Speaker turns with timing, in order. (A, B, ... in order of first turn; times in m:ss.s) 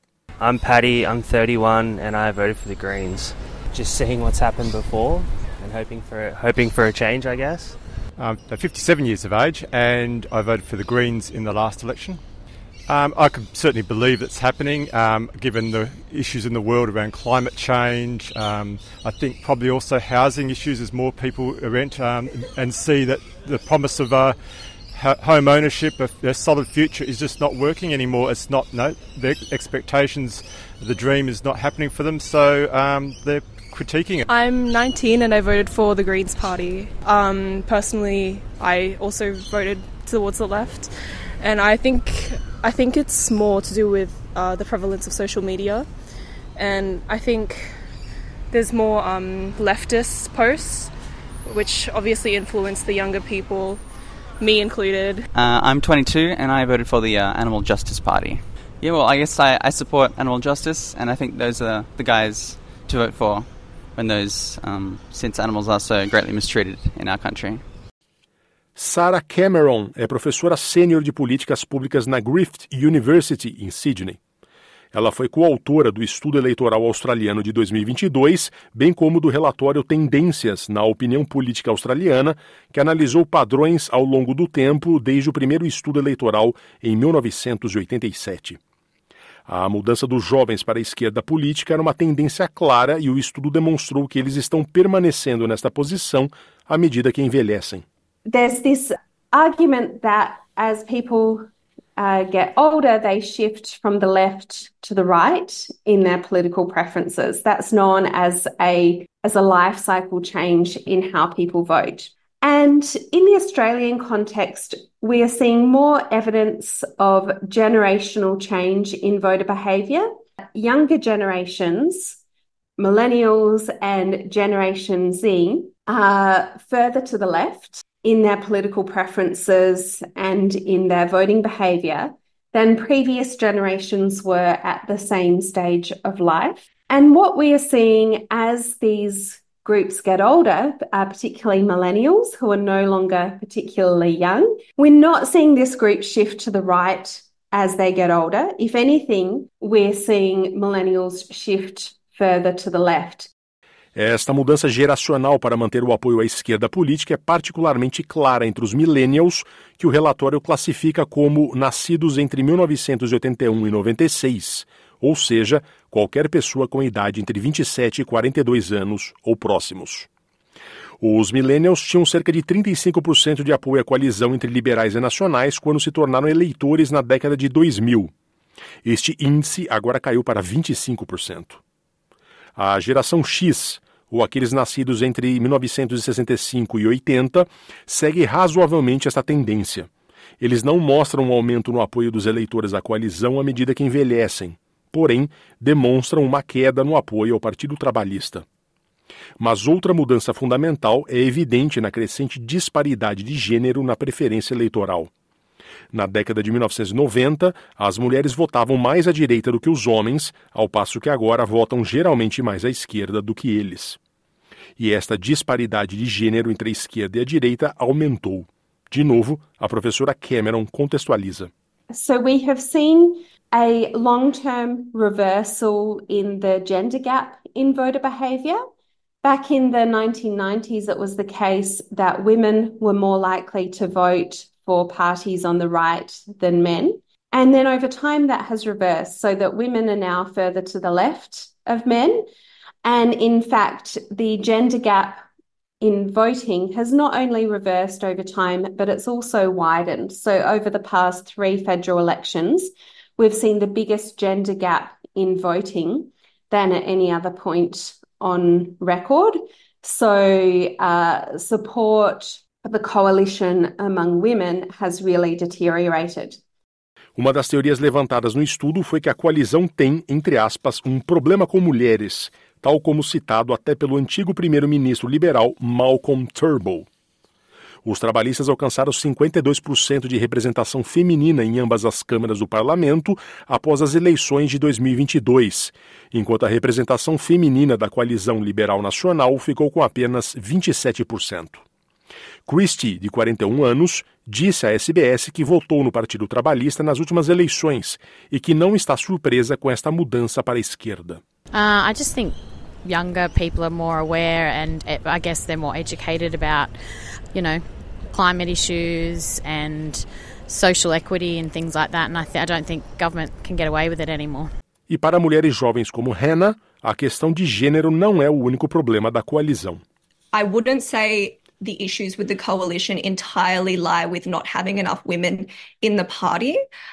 0:00.4-0:07.7 A
0:08.2-0:12.2 B
0:12.8-0:34.2 B
0:34.2-0:45.9 C
0:46.5-0:47.8 C
0:48.5-0:50.9 C
0:51.4-0:53.8 C
0:54.4-0:55.3 C
0:55.3-1:07.6 D
1:08.8-1:14.2 E
1:14.9-1:28.6 E
1:29.5-1:37.8 E
1:38.2-1:41.4 F
1:42.0-2:02.2 F
2:02.8-2:33.3 F
2:34.0-2:50.1 E
2:51.0-2:58.1 E
2:58.8-3:01.6 E
3:02.6-3:09.9 E
3:10.4-3:18.4 E
3:19.4-3:25.1 E
3:25.9-3:34.0 E
3:34.8-3:41.5 E
3:41.9-3:48.6 F
3:49.2-4:02.3 F
4:02.8-4:05.2 F
4:05.8-4:26.4 F
4:27.2-4:36.8 E
4:37.8-4:51.6 E
4:52.5-5:01.2 E
5:01.5-5:06.7 G
5:07.3-5:14.5 G
5:14.9-5:19.8 E
5:20.3-5:26.6 H